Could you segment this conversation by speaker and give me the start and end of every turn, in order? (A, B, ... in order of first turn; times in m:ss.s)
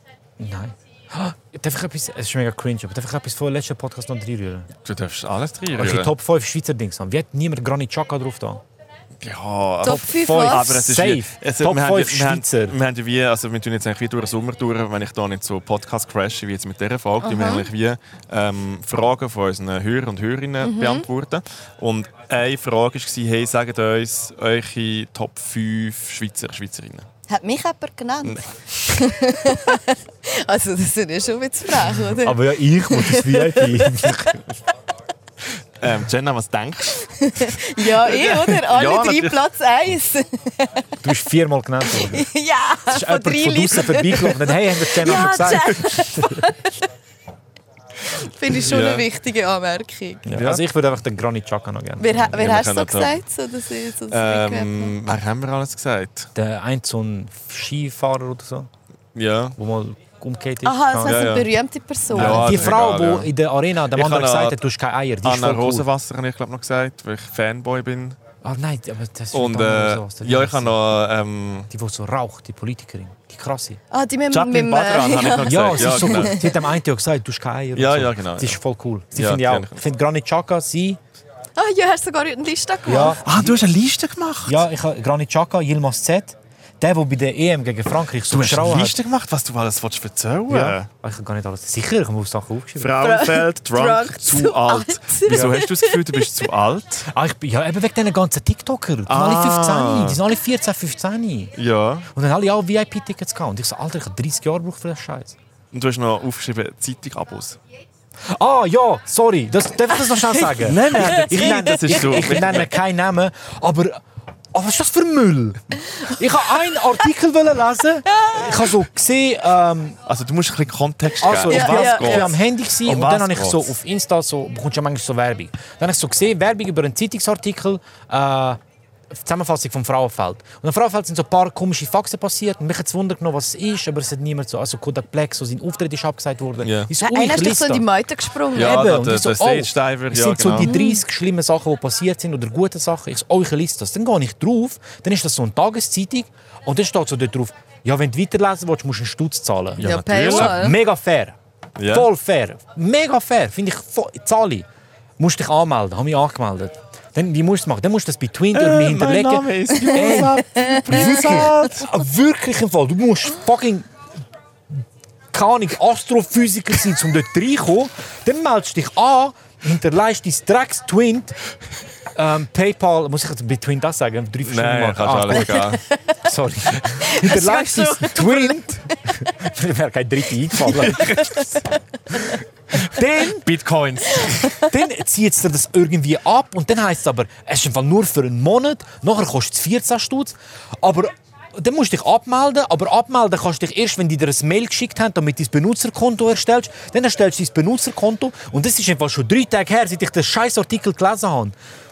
0:00.4-0:04.7 A
0:04.8-0:06.1 B
0:05.8-0:08.6 A
0:09.2-0:27.1 B
0:09.8-0:10.8 C
0:10.0-0:12.8 A
0:17.2-0:17.7 C
0:20.6-0:21.1 C
0:27.3-0:34.3 C
0:28.2-0:28.9 B
0:32.2-0:34.4 A
0:35.8-0:39.4 B
0:37.0-0:40.9 C
0:41.0-0:42.3 A
0:41.9-0:46.9 C
0:42.9-0:46.0 A
0:48.2-0:50.3 C
0:48.5-0:49.1 B
0:50.3-0:52.3 A
0:50.3-0:50.6 B
0:52.0-0:55.0 C
0:52.3-0:53.2 B
0:54.1-0:56.3 B
0:56.4-0:58.7 A
0:59.2-0:59.6 B
0:59.6-1:01.4 A
1:00.6-1:02.7 C
1:01.0-1:01.5 B
1:02.1-1:03.3 B
1:02.1-1:05.9 A
1:03.9-1:04.6 B
1:05.2-1:08.2 B
1:08.4-1:10.9 A
1:09.3-1:11.7 B
1:11.7-1:13.8 A
1:13.9-1:16.7 C
1:14.3-1:16.4 B
1:15.4-1:21.0 A
1:17.8-1:18.6 B
1:19.1-1:19.8 B
1:21.6-1:23.2 C
1:22.8-1:23.7 A
1:23.2-1:24.7 B
1:24.4-1:29.0 A
1:28.3-1:30.9 B
1:30.5-1:33.0 A
1:32.8-1:37.1 B
1:33.0-1:36.5 C
1:35.3-1:35.6 A
1:37.1-1:41.5 A
1:39.1-1:40.2 B
1:41.6-1:42.1 B
1:42.1-1:45.4 A
1:45.7-1:47.6 B
1:48.3-2:00.0 A
1:50.6-1:52.8 B
1:51.2-1:51.6 C
1:58.2-1:58.7 C
2:00.1-2:03.7 B
2:01.2-2:08.6 A
2:01.5-2:02.4 C
2:09.1-2:17.9 A
2:16.6-2:16.9 B
2:17.0-2:18.9 C
2:18.6-2:20.7 B
2:18.6-2:34.7 A
2:20.5-2:21.0 C
2:29.8-2:30.7 B
2:29.8-2:30.8 C
2:31.8-2:32.1 B
2:35.2-2:43.9 A
2:38.5-2:41.9 B
2:39.8-2:41.2 C
2:44.7-2:51.4 A
2:52.1-3:01.5 A
2:54.4-2:55.8 B
2:55.4-2:56.2 C
2:56.8-2:59.2 C
3:00.7-3:01.4 C
3:00.9-3:01.4 B
3:02.1-3:03.5 A
3:03.2-3:04.5 B
3:04.2-3:04.6 C
3:04.6-3:21.6 A